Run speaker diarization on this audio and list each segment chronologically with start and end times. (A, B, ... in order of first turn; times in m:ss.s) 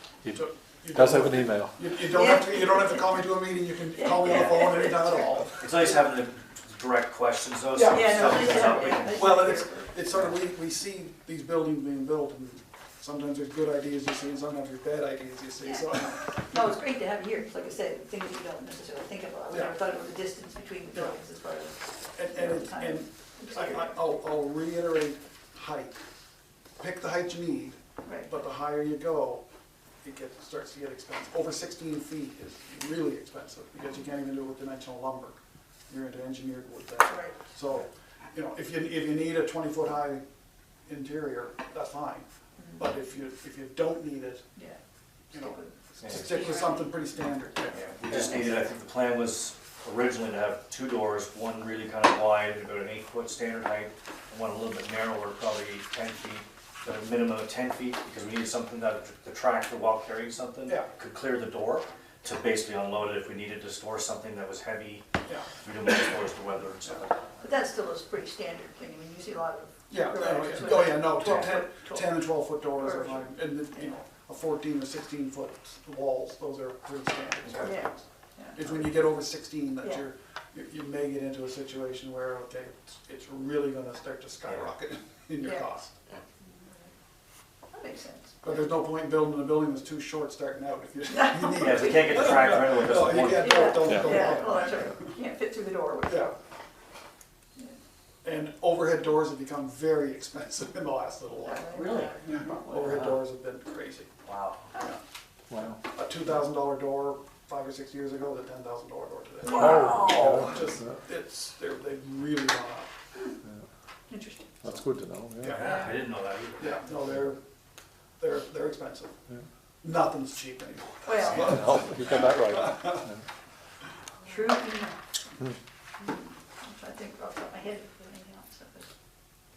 0:00.2-0:01.8 A
0:00.3-0:06.0 B
0:02.1-0:03.4 C
0:03.9-0:05.2 C
0:04.2-0:04.5 D
0:05.5-0:09.3 D
0:07.7-0:16.8 B
0:07.9-0:09.9 C
0:15.6-0:24.1 C
0:19.5-0:19.8 B
0:22.2-0:26.0 B
0:26.8-0:29.4 B
0:28.0-0:28.3 C
0:30.0-0:35.4 B
0:35.9-0:40.2 B
0:37.0-0:37.5 C
0:40.9-0:44.4 B
0:45.3-0:45.8 C
0:45.3-0:47.9 B
0:46.0-0:46.5 D
0:46.4-0:46.8 C
0:47.7-1:07.4 D
1:00.6-1:00.9 B
1:07.4-1:14.0 C
1:09.9-1:26.0 B
1:17.6-1:18.6 C
1:25.4-1:25.7 C
1:26.4-1:26.9 C
1:27.7-1:28.4 C
1:28.4-1:35.1 B
1:31.1-1:32.3 C
1:31.5-1:34.1 D
1:33.4-1:36.4 C
1:33.8-1:34.2 A
1:36.0-1:36.3 B
1:38.2-1:44.1 B
1:41.4-1:42.6 C
1:41.7-1:43.2 D
1:44.2-1:44.7 D
1:45.5-1:45.8 A
1:45.8-1:52.9 B
1:49.4-1:50.1 C
1:49.4-1:50.9 A
1:49.8-1:50.3 D
1:54.1-1:54.6 C
1:54.6-1:55.7 A
1:55.4-1:55.7 B
1:55.4-1:56.8 D
1:56.6-1:57.4 B
1:58.2-1:59.1 B
1:59.8-2:03.0 B
2:01.0-2:01.5 C
2:01.3-2:03.2 A
2:04.2-2:05.0 C
2:06.0-2:08.9 C